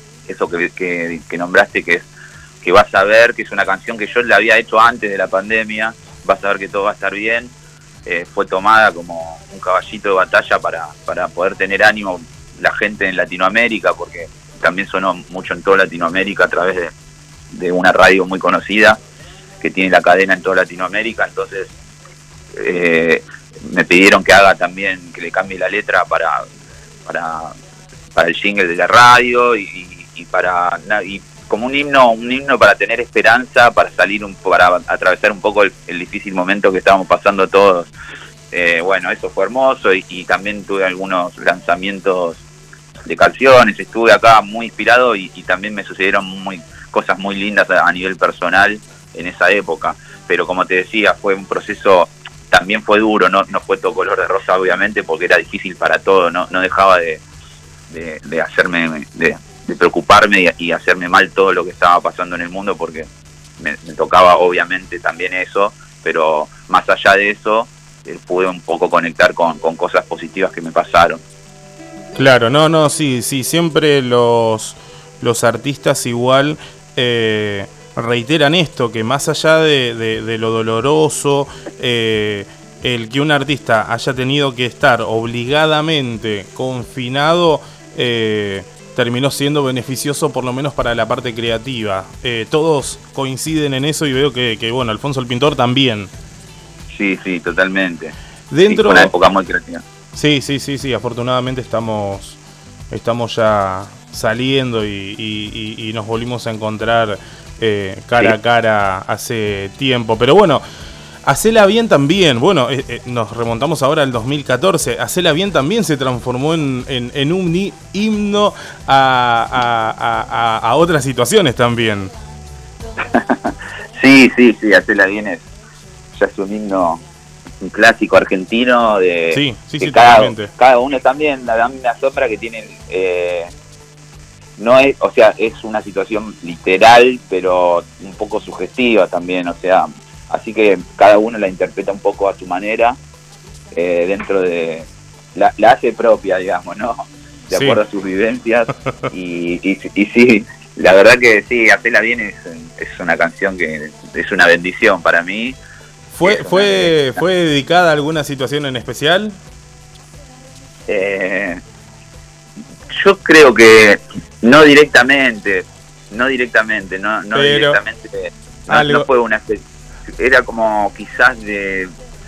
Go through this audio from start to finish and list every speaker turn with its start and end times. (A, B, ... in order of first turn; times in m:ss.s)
0:00.3-0:02.1 A
0:02.6-0:07.5 A
0:08.0-0:16.9 A
0:17.5-0:19.0 A
0:19.6-0:21.7 A
0:22.5-0:26.4 A
0:27.0-0:27.5 A
0:28.1-0:37.9 A
0:38.5-0:42.4 A
0:43.0-0:57.2 A
0:57.9-1:03.1 A
1:03.6-1:11.2 A
1:12.2-1:36.1 B
1:36.9-1:38.1 A
1:38.5-1:39.1 B
1:38.7-1:39.8 A
1:40.1-1:42.4 B
1:42.9-1:50.6 B
1:51.2-2:02.1 B
2:03.0-2:05.4 A
2:06.1-2:07.0 A
2:07.6-2:13.5 A
2:09.3-2:10.5 B
2:14.6-2:23.0 A
2:23.7-2:35.6 A
2:27.5-2:27.8 B
2:36.1-2:39.4 B
2:36.2-2:37.1 A
2:40.9-2:41.6 A
2:42.9-2:51.9 A
2:47.3-2:47.8 B
2:48.7-2:49.1 B